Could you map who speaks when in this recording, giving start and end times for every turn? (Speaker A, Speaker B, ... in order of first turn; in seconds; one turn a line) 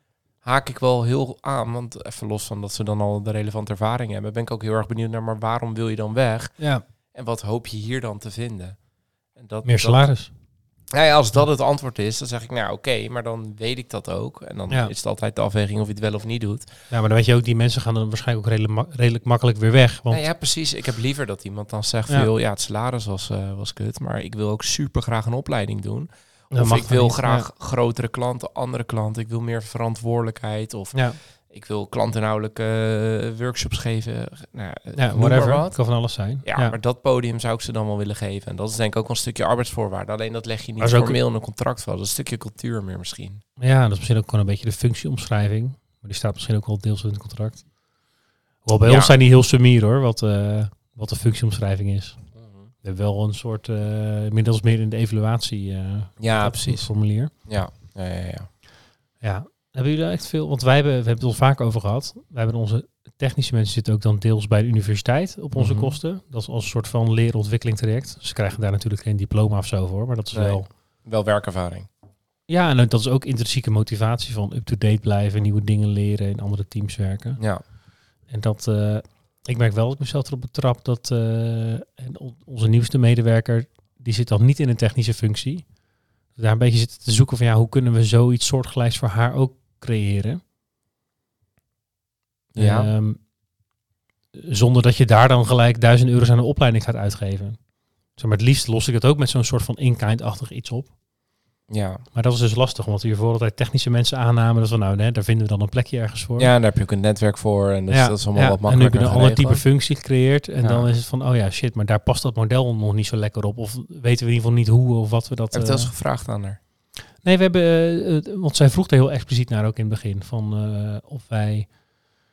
Speaker A: 0.4-10.1
Speaker B: 9.6-10.3
Speaker A: 10.9-16.7
Speaker B: 16.9-20.2
Speaker A: 20.1-43.4
Speaker B: 26.5-27.4
Speaker B: 35.0-36.8
Speaker B: 40.8-41.2
Speaker B: 43.6-48.1
Speaker B: 48.6-52.2
Speaker A: 48.9-49.1
Speaker A: 52.3-52.7
Speaker B: 52.8-57.3
Speaker A: 56.2-58.5
Speaker B: 59.2-70.7
Speaker A: 65.5-66.0
Speaker A: 70.3-71.9
Speaker B: 72.5-77.4
Speaker B: 78.2-90.4
Speaker A: 92.5-92.9
Speaker B: 92.6-93.3
Speaker B: 94.4-101.0
Speaker A: 101.7-102.0
Speaker B: 102.1-106.5
Speaker A: 106.4-109.7
Speaker B: 107.9-115.9
Speaker A: 110.6-110.9
Speaker A: 115.5-116.6
Speaker B: 117.2-122.0